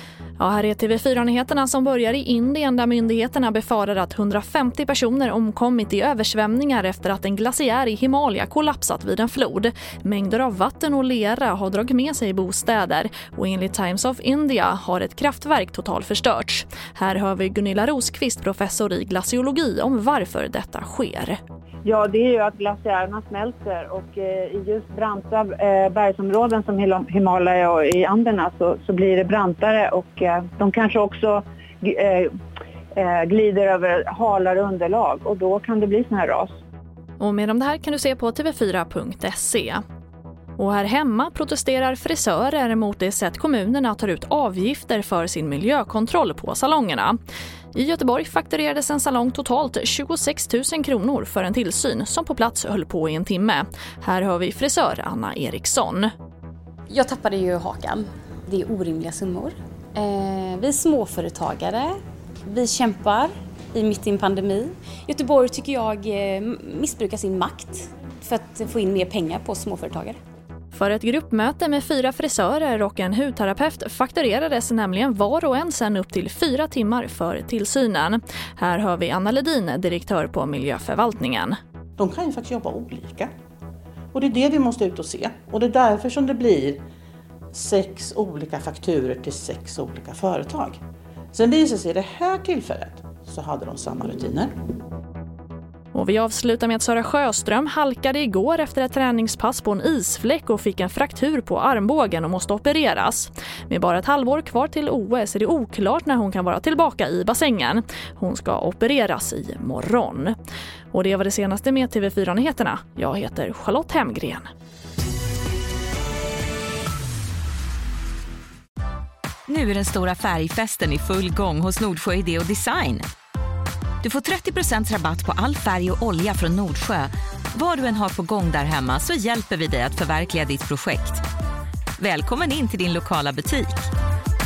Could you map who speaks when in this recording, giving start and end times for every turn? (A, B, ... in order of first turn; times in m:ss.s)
0:00.4-0:21.4 A
0:21.8-0:32.3 B
0:33.0-0:36.5 B
0:37.2-0:39.8 A
0:40.6-0:47.2 A
0:47.7-0:56.1 A
0:56.9-1:10.2 C
1:10.7-1:21.6 A
1:22.0-1:23.3 D
1:24.1-1:26.8 D
1:27.5-1:30.8 D
1:31.3-1:34.5 D
1:35.9-1:50.4 A
1:50.9-1:54.5 A
1:59.5-2:03.0 E
2:04.0-2:11.2 E
2:12.0-2:13.9 E